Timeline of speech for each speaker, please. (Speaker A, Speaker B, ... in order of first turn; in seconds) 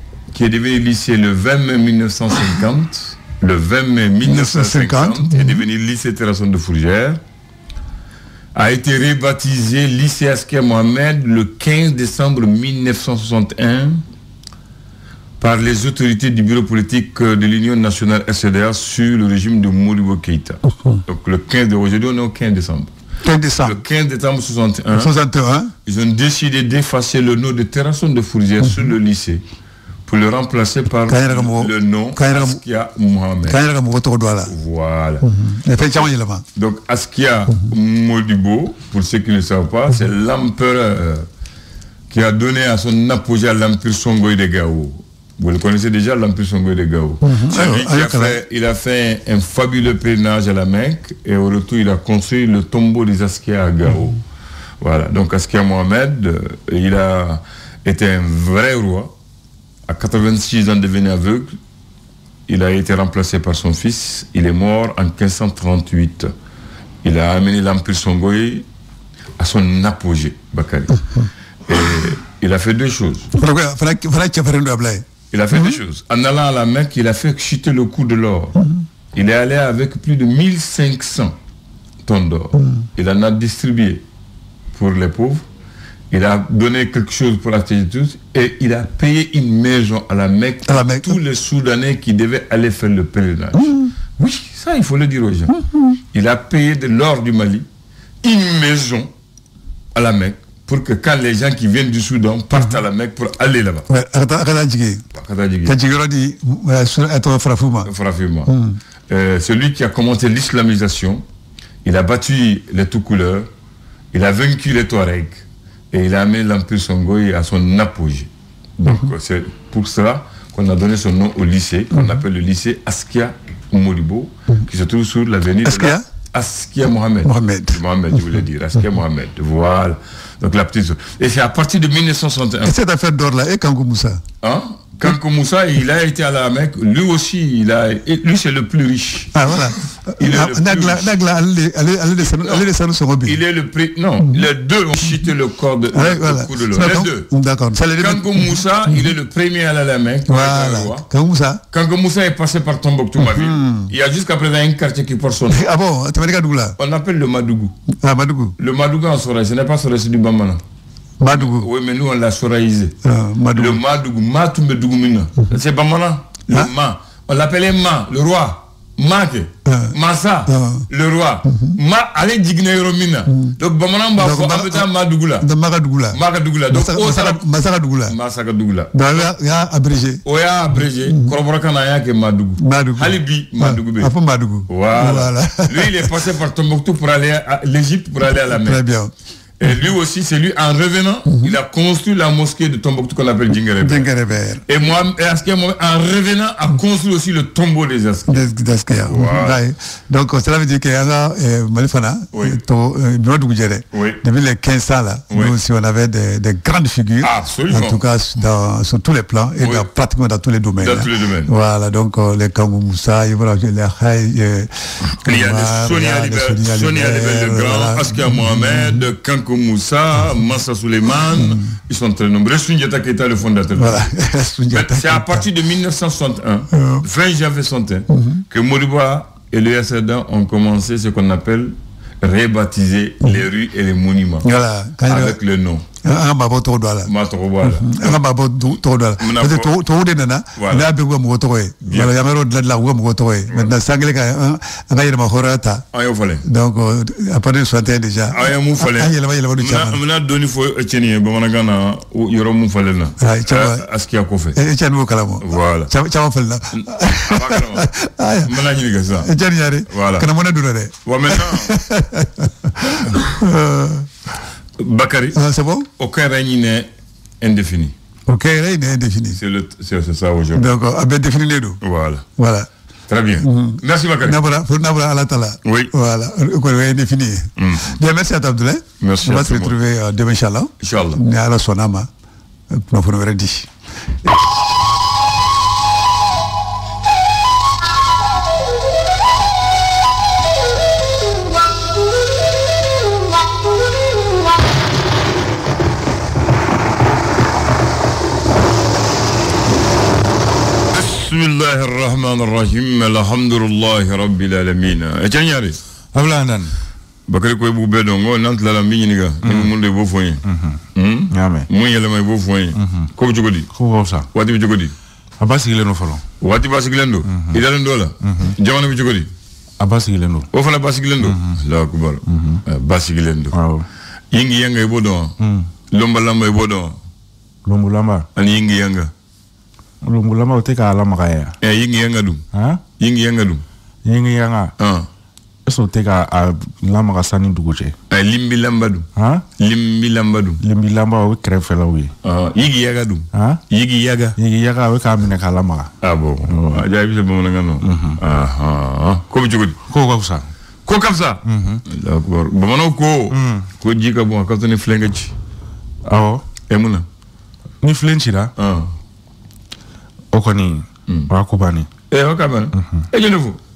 Speaker A: 0.3-7.2, 8.5-14.0, 15.4-22.9, 23.6-25.1, 25.9-29.4, 30.1-33.6, 34.5-41.2, 42.1-54.2, 54.8-59.1, 59.9-61.5, 62.5-66.3, 67.0-68.7, 69.4-71.0, 71.7-73.3, 75.3-78.6, 79.1-81.3, 82.0-84.0, 84.7-85.4, 86.1-95.5, 96.1-97.7, 98.2-99.1, 99.9-103.9, 105.1-105.7, 107.8-108.5, 109.1-111.2, 111.8-113.5, 114.1-132.7, 134.4-139.3, 140.2-141.1, 142.3-142.6, 143.2-147.3, 148.0-151.0, 151.7-155.6, 156.8-157.7, 158.6-160.6, 161.3-162.9, 163.5-175.4, 176.1-177.4, 178.1-179.3, 180.2-184.1, 184.7-188.8, 189.6-194.1, 194.7-199.6, 202.3-202.6, 203.9-204.2, 207.2-208.0, 209.6-209.9, 210.8-211.5, 215.1-224.0, 224.7-234.5, 235.1-235.8, 237.0-238.2, 239.2-239.7, 240.6-240.9, 241.8-242.1, 245.9-246.4, 248.3-254.6, 255.4-255.9, 256.7-257.9, 258.4-259.3, 259.9-260.3, 261.0-261.7, 263.0-263.3, 264.8-265.4, 266.0-266.9, 267.4-267.9, 269.4-270.7, 271.8-272.2, 273.1-274.4, 275.6-275.9, 277.6-277.9, 279.0-279.8, 280.8-281.2, 300.9-305.8, 307.3-310.4, 310.9-313.7, 314.3-314.9, 316.4-319.3, 320.5-323.6, 324.3-325.3, 325.9-326.9, 328.4-329.1, 331.6-332.4, 333.0-333.6, 334.8-335.1, 338.1-339.1, 339.6-340.6, 342.2-344.4, 346.0-349.8, 350.9-355.3, 356.7-357.0, 358.6-358.9, 362.1-363.6
Speaker B: 4.2-5.6, 23.2-23.8, 24.9-25.7, 28.6-28.9, 31.1-32.6, 33.5-34.5, 35.2-36.4, 47.2-48.4, 73.3-75.8, 82.5-82.8, 90.7-91.2, 93.5-93.9, 95.6-96.0, 103.9-105.0, 105.6-107.9, 108.5-108.8, 125.6-126.0, 127.2-127.8, 132.6-134.2, 139.3-143.4, 145.9-149.1, 150.3-151.6, 153.2-153.9, 155.5-156.8, 158.0-158.5, 161.2-161.7, 163.0-163.8, 169.7-169.9, 170.5-170.8, 171.5-171.8, 173.3-173.6, 174.2-174.9, 175.4-176.2, 176.7-178.1, 178.9-180.2, 180.8-181.3, 182.6-186.1, 188.3-189.1, 191.3-191.5, 193.8-194.6, 198.3-219.0, 221.3-221.7, 223.8-225.5, 226.7-227.0, 228.1-228.4, 234.4-235.3, 236.0-237.1, 237.6-245.8, 246.4-250.0, 253.2-253.8, 254.6-258.6, 259.2-264.1, 265.3-265.9, 268.3-269.4, 270.6-271.8, 272.4-272.7, 273.4-282.1, 282.7-283.7
Speaker C: 306.1-306.7, 309.4-309.7, 310.4-311.7, 312.8-313.1, 313.7-314.3, 315.4-316.2, 317.3-317.6, 318.2-318.5, 319.8-320.5, 321.2-321.6, 322.2-322.6, 323.5-323.9, 325.4-325.7, 327.6-328.3, 330.0-331.5, 332.5-332.8, 334.1-334.7, 335.6-337.9, 339.1-339.4, 340.6-342.1, 343.3-343.6, 344.4-345.9, 346.4-346.8, 347.8-348.2, 349.9-350.5, 351.4-351.8, 353.3-353.7, 356.0-356.4, 357.8-358.5, 360.3-361.9, 362.7-363.0